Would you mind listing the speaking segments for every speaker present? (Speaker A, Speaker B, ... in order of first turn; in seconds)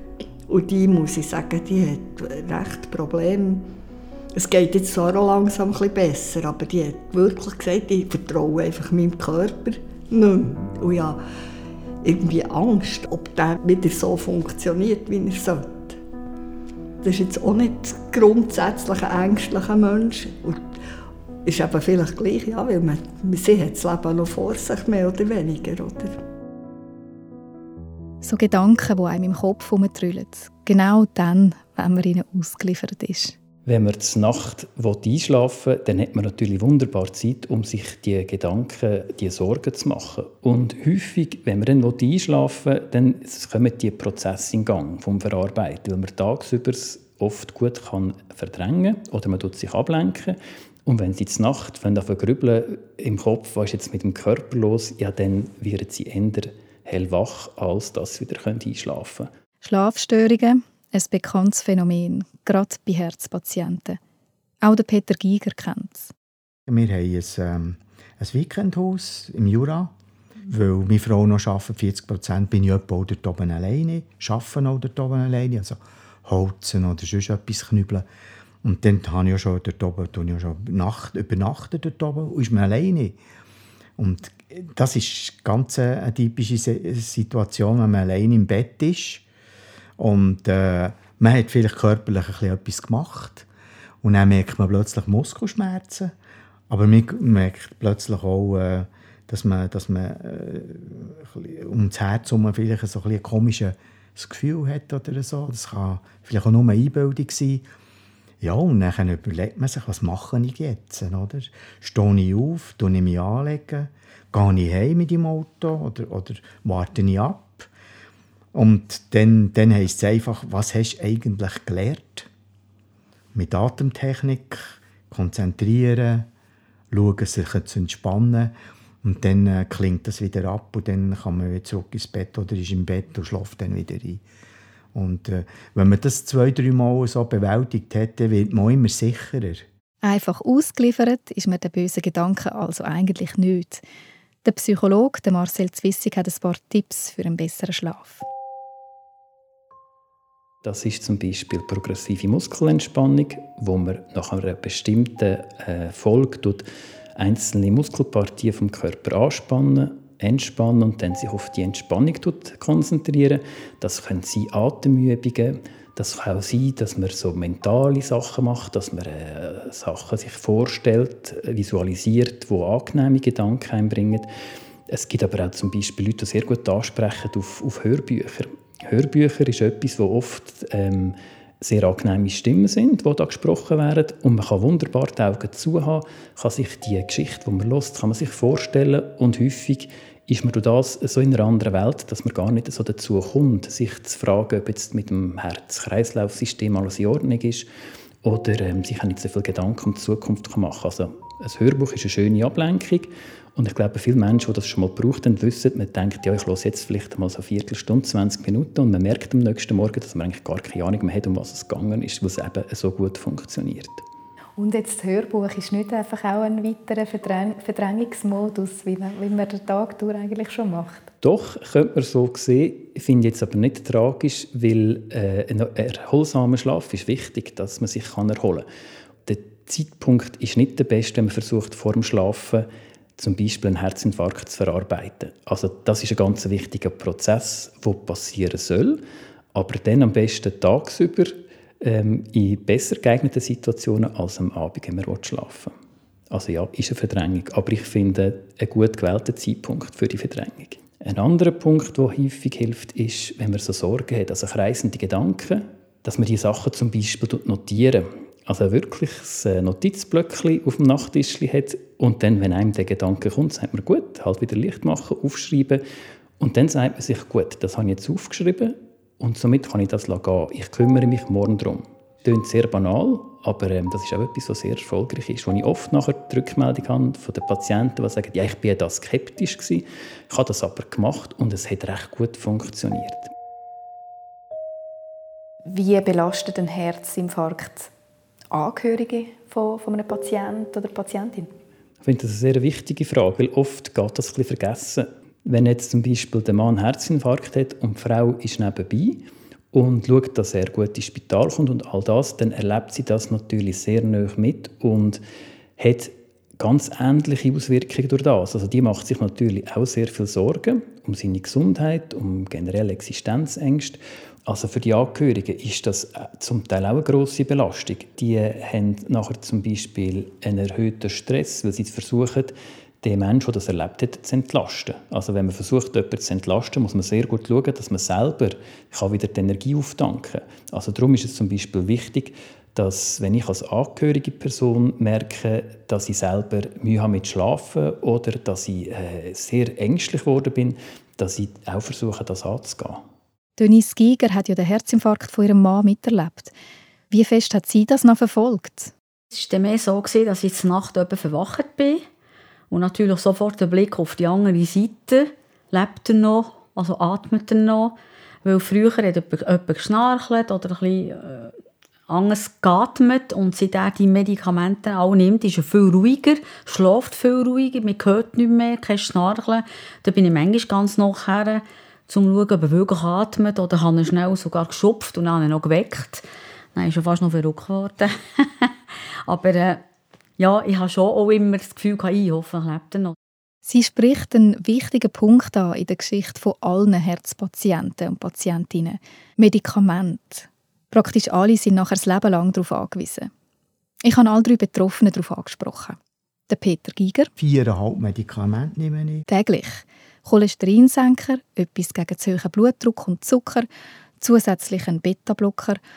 Speaker A: 0.5-3.7, 4.3-11.2, 12.0-16.0, 17.0-20.6, 21.4-26.2
Speaker B: 28.2-33.4, 59.6-64.0, 64.6-66.1, 140.0-143.8, 144.4-148.3, 214.6-221.1, 285.7-287.9, 288.5-291.5, 343.6-346.5, 347.1-348.9, 383.6-393.3, 394.0-397.3, 399.3-403.7, 404.2-405.8
Speaker C: 33.7-59.3, 150.6-156.7, 157.2-174.3, 174.9-197.7, 198.2-214.0, 221.2-228.7, 229.3-239.0, 239.5-245.8, 246.3-265.8, 266.4-283.3, 292.0-305.2, 305.8-343.0
Speaker D: 66.7-69.9, 70.5-78.1, 78.6-83.2, 84.0-89.2, 90.0-93.5, 94.0-96.1, 96.7-107.7, 108.4-117.7, 118.5-122.3, 123.3-126.3, 126.9-134.2, 134.9-139.7, 397.4-399.3
Speaker E: 349.3-352.0, 352.7-361.5, 362.1-378.7, 379.3-379.9, 380.4-383.1